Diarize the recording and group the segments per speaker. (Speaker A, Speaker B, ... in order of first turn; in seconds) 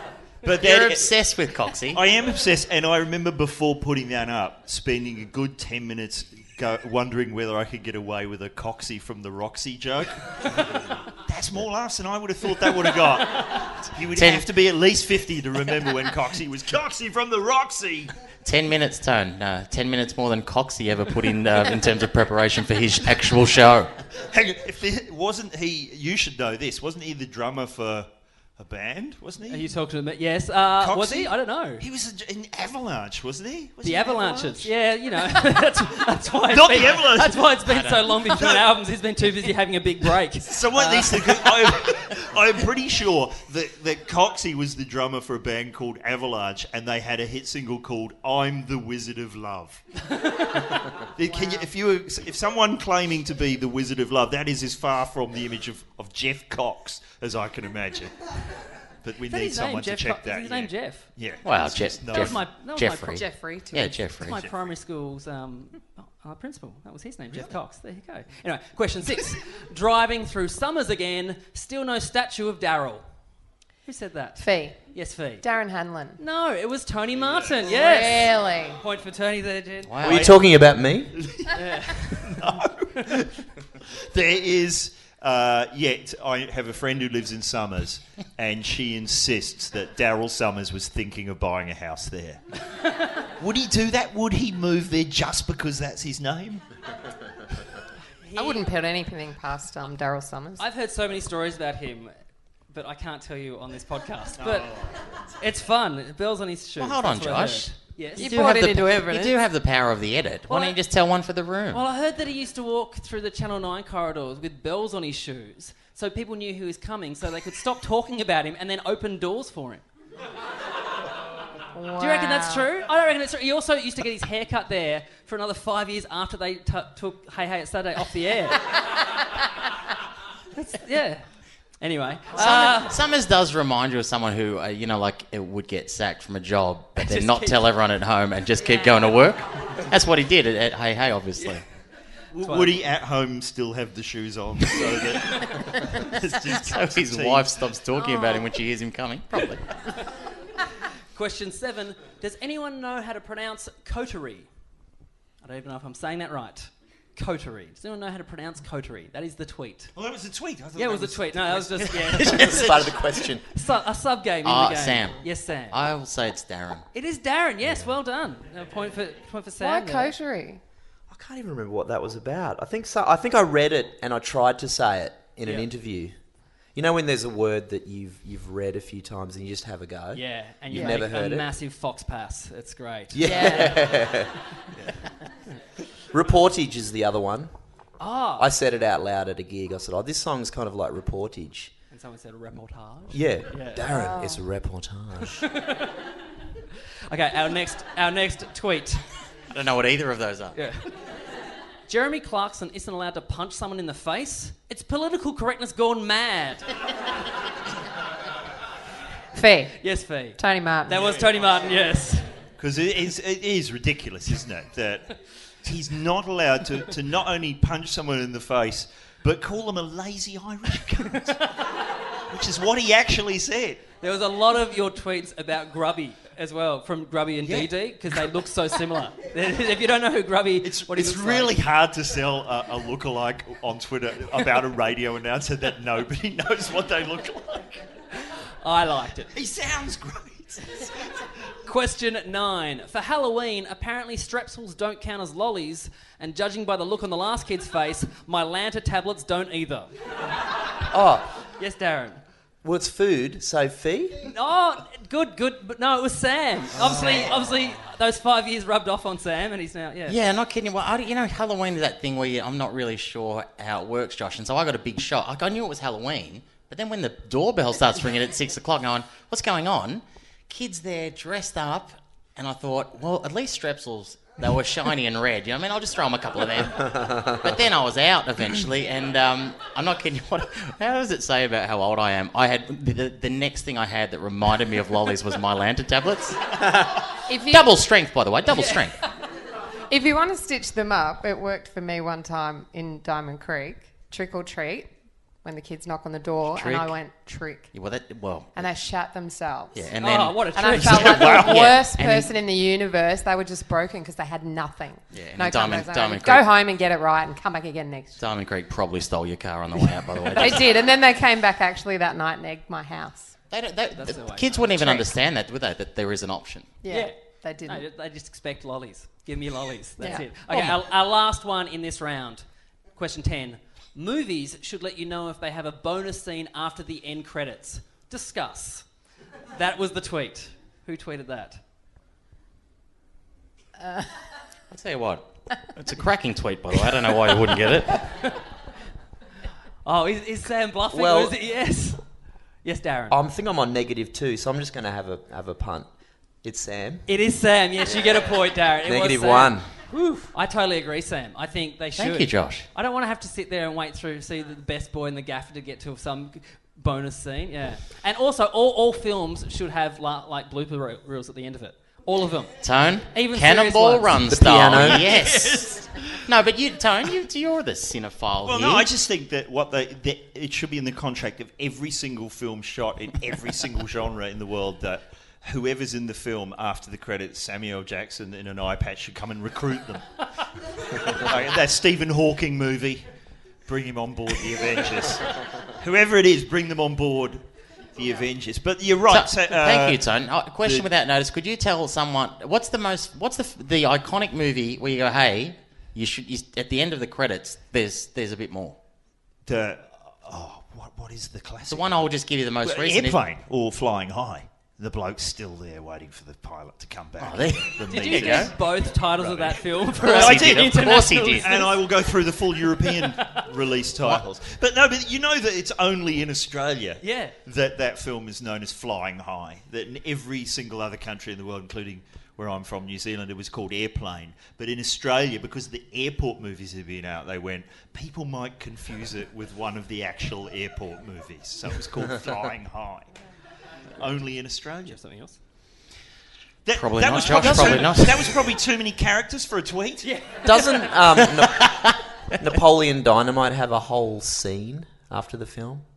Speaker A: 0.4-1.3, 1.9-18.1, 24.3-29.7, 30.8-34.7, 35.3-35.5, 36.5-37.6, 38.2-38.7, 40.5-49.8, 50.7-62.4, 77.1-77.8, 80.1-83.5, 84.0-92.4, 93.4-96.6, 104.4-105.1, 142.3-147.5, 160.0-163.1, 211.0-211.7, 212.6-221.5, 222.3-223.9, 227.4-227.7, 230.6-237.9, 239.3-241.1, 256.8-257.5, 300.8-301.7, 368.4-380.3, 381.0-383.1, 383.6-390.1, 390.6-390.9, 399.5-402.1, 402.6-433.1, 434.0-435.0, 436.6-440.1
Speaker B: 0.6-2.0, 14.1-14.5, 18.4-23.9, 37.7-38.2, 61.4-64.4, 79.9-80.3, 106.8-111.8, 132.3-141.6, 146.4-149.8, 164.4-166.8, 199.5-200.6, 260.1-286.6, 287.5-289.0, 296.4-296.9, 297.7-298.7, 299.7-302.3, 305.1-306.5, 308.2-310.9, 313.5-316.7, 320.5-320.8, 334.7-338.2, 352.0-352.7, 362.6-368.9, 389.1-398.8, 401.7-403.2, 407.2-408.5, 410.0-411.7, 436.8-438.5, 441.6-441.9
Speaker C: 29.5-31.8, 33.8-41.4, 59.3-61.1, 62.1-63.2, 64.2-73.0, 73.8-75.4, 76.2-79.9, 81.5-82.3, 98.2-98.7, 100.6-102.2, 102.7-104.7, 105.4-108.4, 110.5-110.8, 111.7-119.8, 122.0-128.7, 130.6-131.3, 131.8-133.0, 137.0-137.7, 142.4-142.8, 151.1-154.5, 155.4-159.9, 160.8-165.8, 166.9-170.1, 175.4-175.7, 180.1-183.8, 188.0-188.5, 191.9-193.9, 195.2-196.0, 197.1-199.0, 200.6-200.9, 201.9-206.7, 209.8-212.3, 224.0-231.5, 238.6-239.3, 241.7-249.9, 251.6-252.2, 254.2-260.2, 300.0-301.6, 313.9-315.0, 316.9-322.4, 323.0-328.9, 329.5-331.6, 339.9-342.0, 342.6-343.2, 347.1-362.6, 363.1-364.2, 407.9-411.7, 412.9-413.4, 417.0-417.4, 434.9-435.4, 437.3-437.5, 440.0-441.0
Speaker D: 51.3-51.7, 63.1-64.0, 74.4-74.8, 75.4-76.2, 77.7-78.8, 98.4-100.7, 108.2-109.3, 121.7-122.7, 169.6-170.6, 180.7-181.0, 183.2-183.9, 193.9-194.4, 209.3-211.0, 287.3-287.7, 289.9-294.9, 295.4-297.7, 298.6-299.9, 300.6-308.2, 310.3-313.3, 316.8-317.9, 320.0-320.3
Speaker E: 80.0-81.1, 162.3-163.5, 167.6-167.9, 171.1-176.2, 176.8-181.5, 183.1-184.3, 186.1-187.5, 188.4-191.7, 193.1-195.4, 250.9-251.3, 252.6-254.3, 340.9-341.4, 343.1-345.9, 346.4-347.1, 348.8-349.7, 364.3-365.0, 440.4-445.9